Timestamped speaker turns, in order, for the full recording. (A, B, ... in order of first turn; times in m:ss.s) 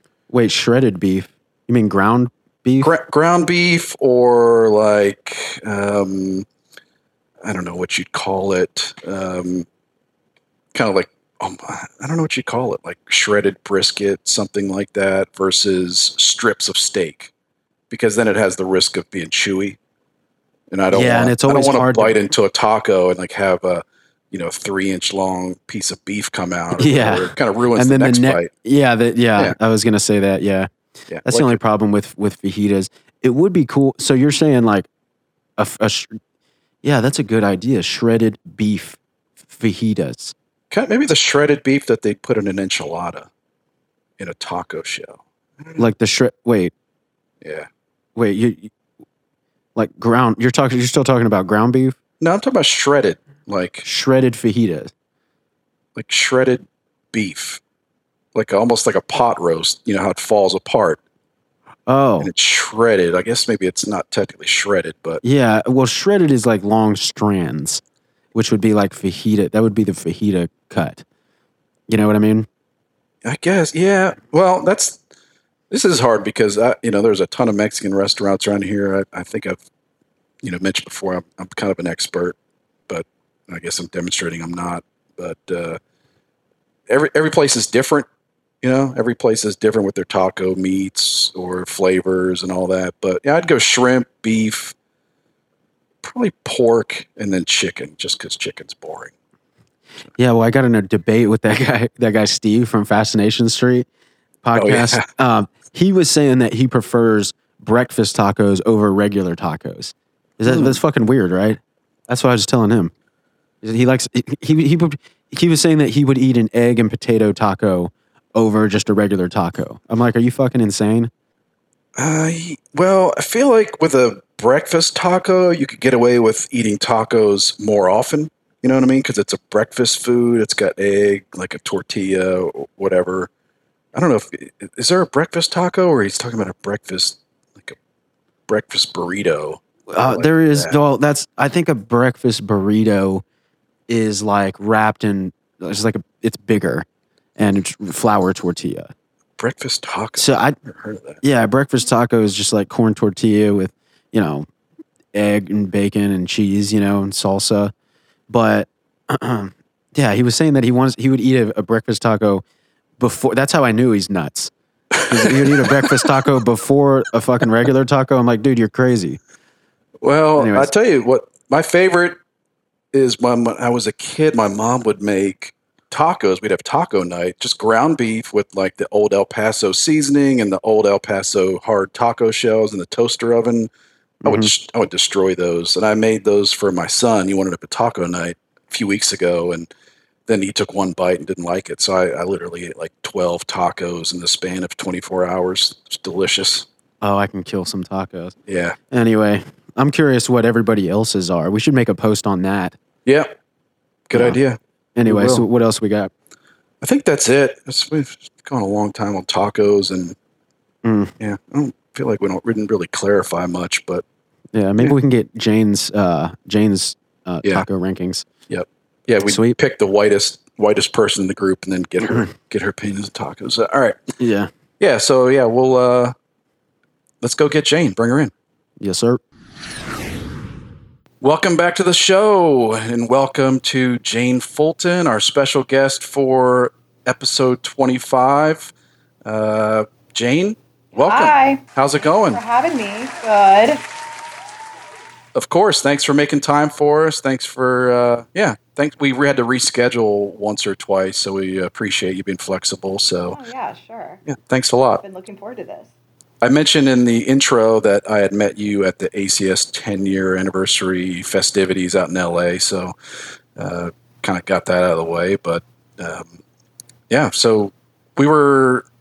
0:00.3-0:02.9 A
0:02.8-0:06.4 B
0:07.4-0:09.6 B
0:10.7-0:17.3 B
0:17.9-0:19.8 B
0:20.7-0:28.5 B
0:20.9-0:22.2 A
0:26.8-0:30.7 A
0:31.1-0:31.6 B
0:31.2-0:34.9 A
0:35.6-0:36.2 A
0:36.8-0:40.3 A
0:40.7-0:43.3 B
0:44.2-0:45.9 B
0:45.8-0:46.7 A
0:47.4-0:47.7 B
0:48.2-0:48.7 A
0:49.8-0:52.0 A
0:52.2-0:53.8 B
0:53.8-0:54.9 A
0:56.0-0:57.6 B
0:58.3-1:01.0 B
1:01.9-1:02.3 A
1:02.2-1:05.2 B
1:05.2-1:07.8 A
1:08.3-1:11.0 A
1:11.9-1:12.5 A
1:13.2-1:15.0 B
1:15.7-1:19.6 B
1:20.4-1:22.4 B
1:22.9-1:25.8 B
1:26.9-1:28.1 B
1:28.6-1:34.7 B
1:36.0-1:39.1 B
1:40.2-1:43.9 A
1:44.4-1:52.9 A
1:44.5-1:45.1 B
1:50.4-1:50.8 B
1:53.6-2:01.1 A
2:02.0-2:13.3 B
2:13.9-2:17.8 B
2:18.5-2:20.8 B
2:19.9-2:23.2 A
2:23.9-2:26.8 A
2:27.4-2:28.9 A
2:29.4-2:31.2 B
2:30.2-2:30.6 A
2:31.2-2:34.4 A
2:35.1-2:37.7 A
2:38.3-2:42.4 A
2:43.0-2:44.5 A
2:45.0-2:46.2 B
2:45.1-2:49.2 A
2:50.0-2:52.2 B
2:50.4-2:50.7 A
2:52.9-3:03.7 B
3:04.2-3:04.5 A
3:04.2-3:09.7 B
3:10.3-3:16.7 B
3:17.0-3:18.3 A
3:18.5-3:18.8 B
3:18.9-3:22.8 A
3:24.1-3:25.4 B
3:25.0-3:26.1 A
3:26.8-3:30.1 B
3:30.8-3:31.1 A
3:31.2-3:34.0 B
3:34.5-3:38.3 A
3:38.5-3:44.0 B
3:39.2-3:39.5 A
3:44.2-3:44.5 A
3:44.8-3:46.1 B
3:47.2-3:48.3 B
3:48.8-3:49.2 A
3:51.2-3:58.7 B
3:59.2-4:02.4 B
4:00.9-4:03.8 C
4:05.3-4:13.4 B
4:13.3-4:14.2 C
4:14.2-4:15.0 B
4:15.0-4:15.9 C
4:16.4-4:22.9 B
4:23.6-4:26.3 B
4:27.1-4:28.8 B